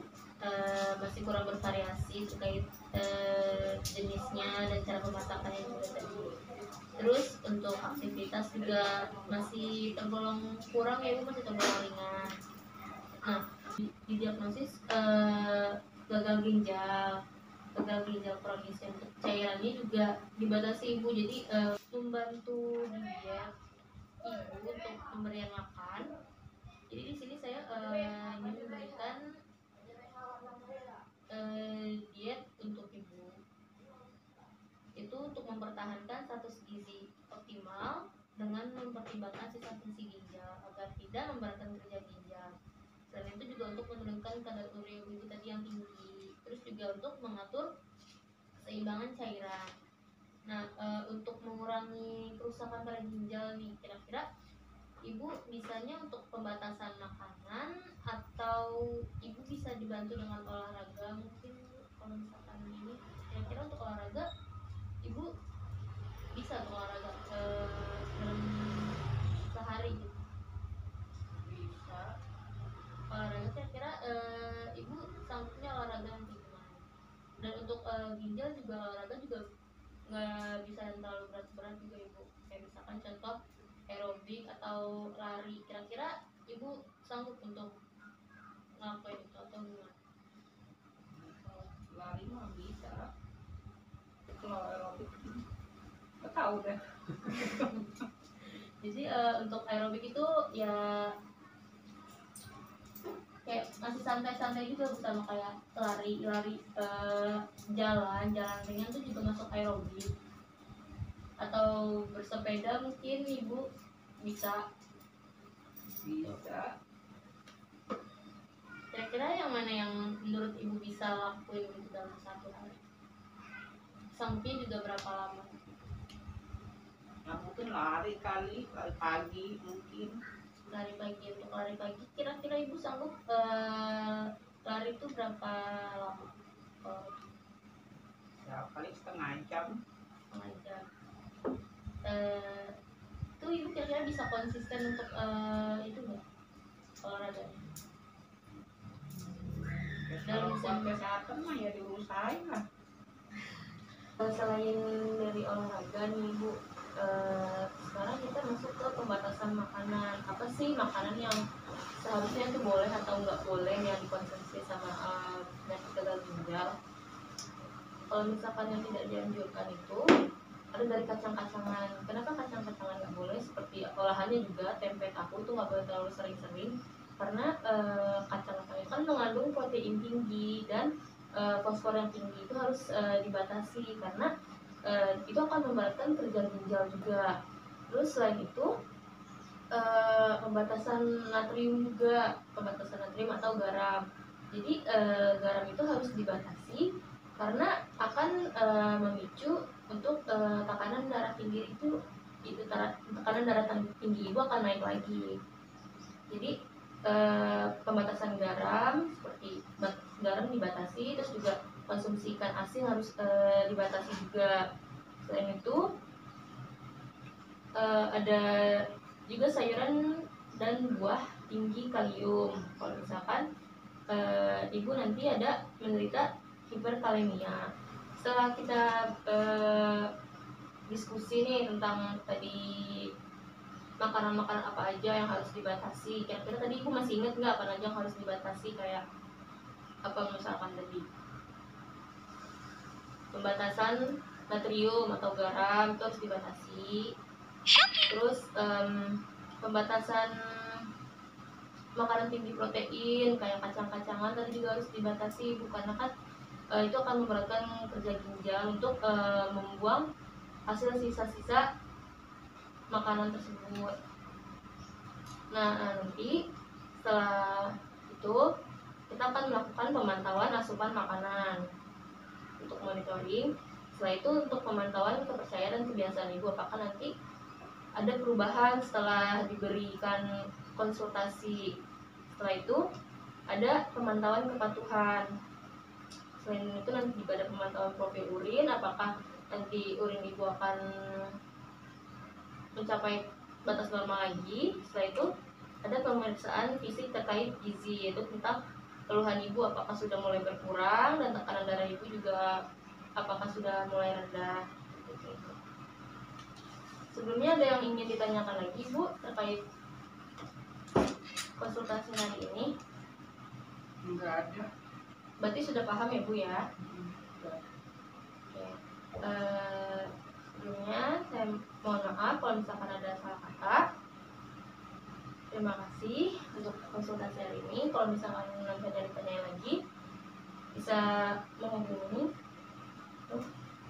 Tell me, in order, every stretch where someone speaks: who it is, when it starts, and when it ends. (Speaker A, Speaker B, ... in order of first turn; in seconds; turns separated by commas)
Speaker A: 0.4-6.3, Speaker A: 7.0-12.3, Speaker A: 13.2-17.1, Speaker A: 17.8-23.5, Speaker A: 24.2-26.1, Speaker A: 26.9-29.2, Speaker A: 31.3-33.3, Speaker A: 35.0-42.5, Speaker A: 43.1-47.7, Speaker A: 48.6-49.6, Speaker A: 50.5-54.2, Speaker A: 55.1-64.2, Speaker A: 66.3-68.9, Speaker A: 69.5-70.2, Speaker B: 71.3-72.1, Speaker A: 73.1-76.9, Speaker A: 77.4-79.4, Speaker A: 80.1-83.3, Speaker A: 83.9-87.7, Speaker A: 88.8-90.0, Speaker B: 91.1-93.0, Speaker B: 94.3-95.4, Speaker B: 96.2-97.7, Speaker A: 98.8-100.8, Speaker A: 103.5-110.1, Speaker A: 111.4-113.6, Speaker A: 114.2-114.6, Speaker B: 116.0-116.7, Speaker A: 118.9-122.8, Speaker A: 124.2-125.6, Speaker B: 127.3-130.1, Speaker A: 130.7-137.2, Speaker B: 138.4-139.8, Speaker A: 140.3-140.8, Speaker A: 142.0-142.7, Speaker A: 143.4-146.2, Speaker A: 147.0-147.6, Speaker B: 150.1-152.6, Speaker A: 150.2-150.9, Speaker A: 154.2-161.3, Speaker A: 162.0-166.7, Speaker A: 168.1-170.0, Speaker A: 170.7-180.9, Speaker A: 181.4-184.3, Speaker A: 184.9-187.3, Speaker A: 187.9-188.7, Speaker A: 189.7-194.0, Speaker A: 194.5-196.8, Speaker A: 197.4-201.9, Speaker A: 202.5-205.3, Speaker A: 207.1-214.5, Speaker A: 215.2-215.8, Speaker A: 217.8-218.4, Speaker A: 219.3-219.9, Speaker A: 220.6-223.4, Speaker A: 224.1-227.6, Speaker A: 228.2-230.0, Speaker A: 230.9-232.6, Speaker A: 234.0-239.0, Speaker A: 240.1-241.1, Speaker A: 243.3-243.9, Speaker A: 244.5-247.0, Speaker A: 248.1-249.0, Speaker A: 249.6-250.3, Speaker A: 252.0-256.1, Speaker A: 256.8-260.0, Speaker A: 260.7-261.6, Speaker A: 262.9-263.9, Speaker A: 265.5-266.3, Speaker A: 267.0-267.4, Speaker A: 268.1-268.4, Speaker A: 269.1-271.6, Speaker A: 272.6-273.4, Speaker A: 273.9-277.1, Speaker A: 278.0-280.2, Speaker A: 280.8-281.6, Speaker A: 282.4-282.8, Speaker A: 283.5-285.2, Speaker A: 286.4-290.8, Speaker A: 292.8-295.2, Speaker A: 295.8-298.6, Speaker A: 299.1-302.4, Speaker A: 303.2-305.6, Speaker A: 307.1-309.6, Speaker A: 311.6-312.6, Speaker B: 314.0-314.7, Speaker A: 315.4-316.6, Speaker B: 316.8-317.6, Speaker A: 318.5-323.8, Speaker A: 325.5-329.7, Speaker A: 330.7-332.2